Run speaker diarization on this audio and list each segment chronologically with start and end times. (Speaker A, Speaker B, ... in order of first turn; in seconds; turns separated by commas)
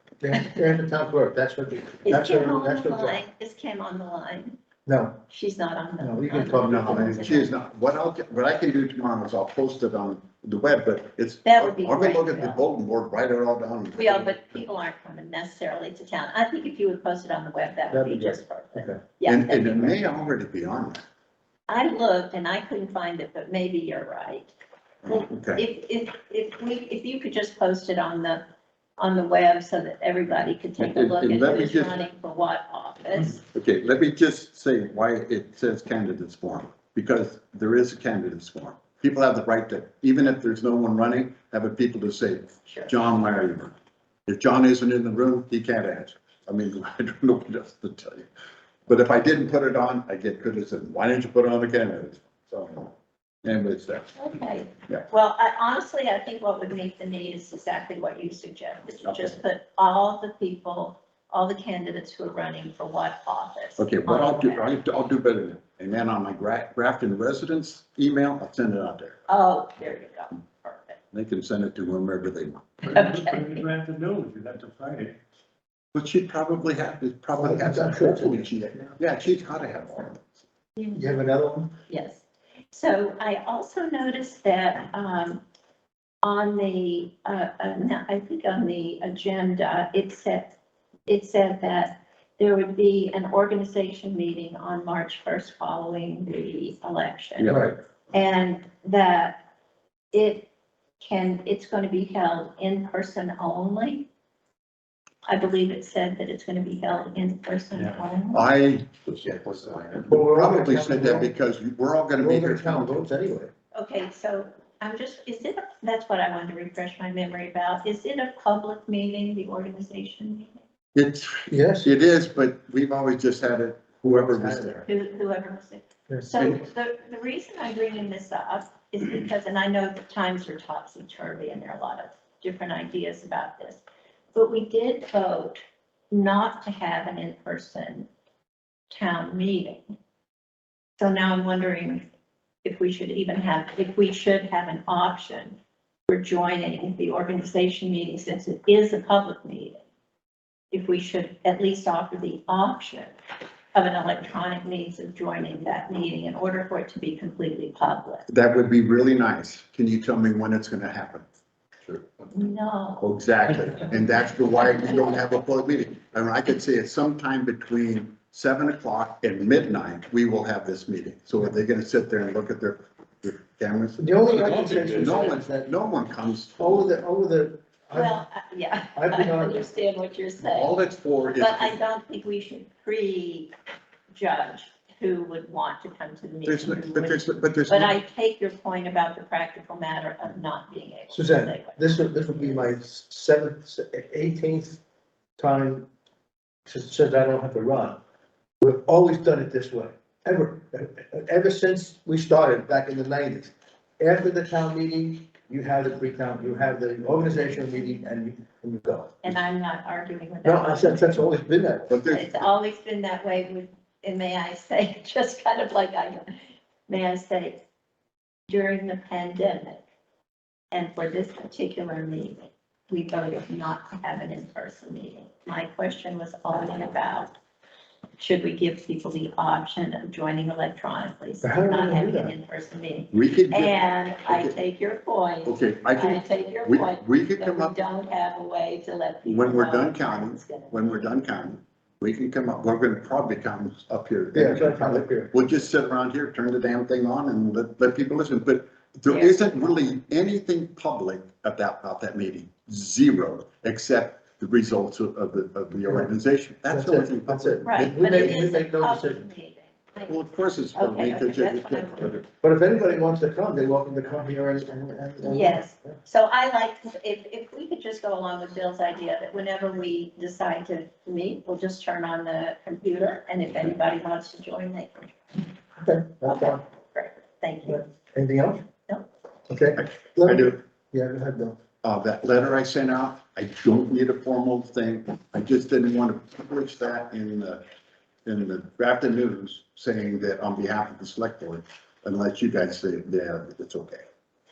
Speaker A: 0.2-3.2, Speaker B: 2.0-4.6, Speaker A: 4.9-5.2, Speaker B: 5.3-7.5, Speaker A: 6.0-7.3, Speaker C: 6.6-14.6, Speaker B: 11.4-12.6, Speaker B: 13.9-20.0, Speaker A: 17.9-19.0, Speaker C: 19.2-21.0, Speaker B: 21.7-24.5, Speaker C: 25.1-25.6, Speaker B: 25.5-28.4, Speaker B: 29.0-33.4, Speaker C: 30.8-32.0, Speaker C: 33.2-43.8, Speaker B: 42.7-42.9, Speaker C: 44.3-48.3, Speaker C: 48.9-52.9, Speaker C: 53.4-54.1, Speaker B: 54.1-64.7, Speaker C: 59.0-59.4, Speaker C: 63.8-69.2, Speaker B: 69.3-71.0, Speaker C: 71.1-73.1, Speaker D: 72.9-75.2, Speaker B: 72.9-73.6, Speaker C: 75.9-80.2, Speaker A: 77.4-78.5, Speaker A: 80.9-81.7, Speaker B: 81.9-85.4, Speaker B: 86.2-90.5, Speaker B: 91.1-97.6, Speaker A: 97.5-97.8, Speaker B: 98.1-99.4, Speaker B: 100.1-100.5, Speaker B: 101.0-104.1, Speaker B: 105.3-108.4, Speaker C: 108.3-113.1, Speaker A: 110.1-111.3, Speaker A: 112.2-113.5, Speaker B: 113.7-120.6, Speaker C: 120.9-124.9, Speaker A: 121.5-121.9, Speaker A: 124.1-124.8, Speaker B: 124.8-133.8, Speaker C: 126.4-126.6, Speaker B: 134.3-135.6, Speaker B: 136.1-138.1, Speaker B: 138.9-139.9, Speaker B: 141.0-142.0, Speaker B: 142.6-145.6, Speaker B: 146.1-149.8, Speaker B: 150.7-153.1, Speaker B: 153.8-158.2, Speaker C: 158.3-161.3, Speaker B: 162.3-163.1, Speaker C: 163.0-177.0, Speaker A: 174.0-175.7, Speaker D: 174.5-175.1, Speaker A: 176.6-178.2, Speaker B: 177.9-180.8, Speaker A: 179.0-179.6, Speaker C: 180.4-181.8, Speaker B: 181.3-183.5, Speaker B: 184.1-192.7, Speaker C: 186.4-187.9, Speaker A: 191.1-194.8, Speaker A: 195.4-195.9, Speaker A: 196.7-198.0, Speaker A: 198.6-209.2, Speaker B: 209.2-211.2, Speaker A: 210.4-211.9, Speaker C: 211.9-212.3, Speaker B: 212.1-216.3, Speaker B: 216.9-217.6, Speaker B: 218.5-219.8, Speaker B: 220.7-227.3, Speaker B: 228.2-241.2, Speaker A: 231.4-232.3, Speaker C: 233.1-234.6, Speaker C: 235.4-237.8, Speaker C: 239.3-258.4, Speaker A: 244.3-245.4, Speaker B: 249.1-249.4, Speaker A: 256.7-259.3, Speaker B: 257.7-260.2, Speaker C: 260.1-262.2, Speaker B: 260.8-262.2, Speaker A: 262.4-266.0, Speaker B: 265.2-275.1, Speaker A: 275.8-276.6, Speaker B: 276.2-277.9, Speaker A: 277.6-278.6, Speaker A: 279.5-281.6, Speaker C: 279.8-280.6, Speaker C: 281.8-287.6, Speaker C: 288.2-294.0